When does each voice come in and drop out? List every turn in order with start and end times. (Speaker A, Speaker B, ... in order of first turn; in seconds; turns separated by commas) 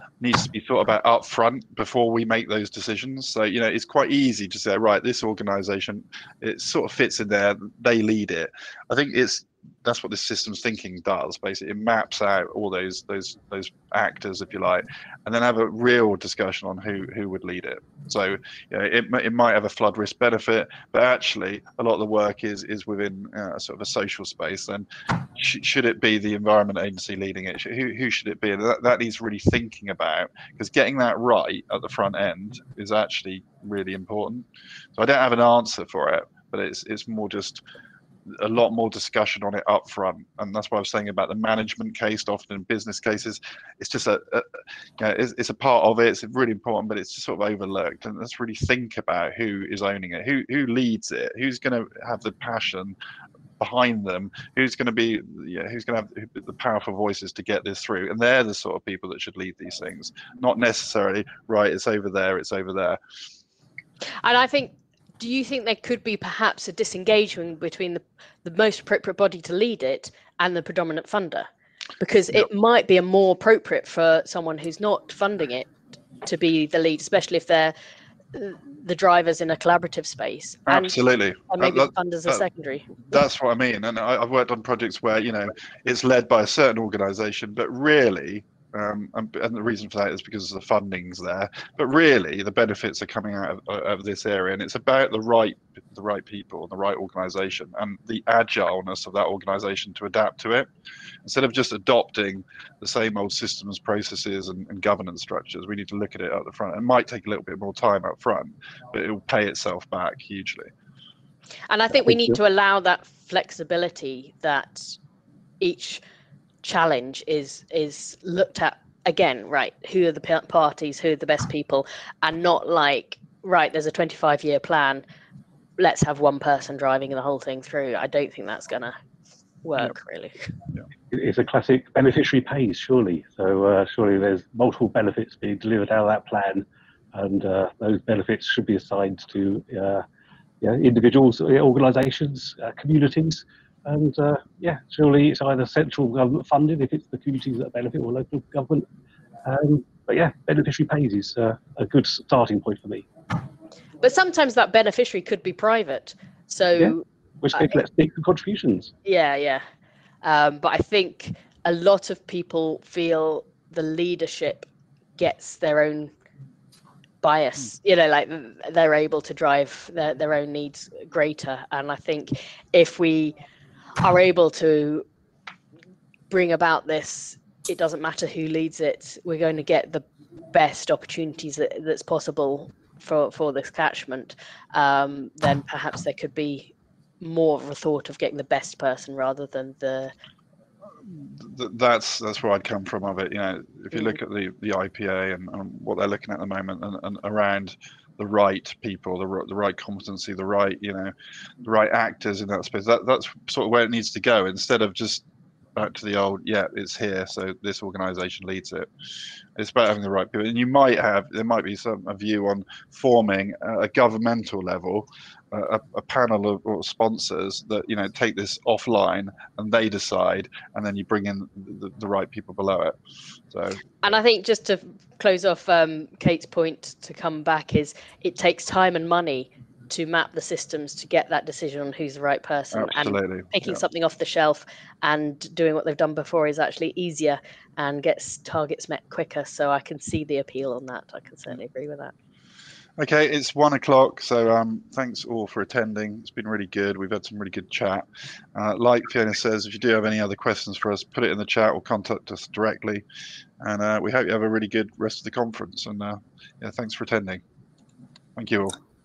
Speaker A: 0.2-34.5, Speaker A: 35.0-37.6, Speaker A: 38.3-53.0, Speaker A: 53.6-63.0, Speaker B: 64.2-71.5, Speaker B: 72.0-75.7, Speaker B: 76.2-77.7, Speaker B: 78.3-81.0, Speaker A: 80.7-82.4, Speaker B: 81.5-82.9, Speaker A: 83.1-100.7, Speaker A: 101.2-110.7, Speaker B: 111.7-115.0, Speaker B: 115.6-116.0, Speaker B: 116.6-125.0, Speaker B: 125.8-128.9, Speaker B: 129.6-130.5, Speaker C: 131.1-140.0, Speaker C: 140.6-148.9, Speaker C: 149.4-153.1, Speaker B: 154.0-157.8, Speaker C: 156.8-158.9, Speaker B: 159.1-159.6, Speaker B: 160.2-164.7, Speaker B: 165.2-166.1, Speaker B: 167.2-173.4, Speaker B: 174.0-175.1, Speaker B: 176.3-190.1, Speaker A: 191.0-205.2, Speaker A: 205.8-208.9, Speaker A: 209.6-223.0, Speaker A: 223.5-223.9, Speaker B: 224.0-242.1, Speaker A: 232.7-233.8, Speaker A: 243.0-253.0, Speaker A: 253.6-257.4, Speaker A: 258.4-258.8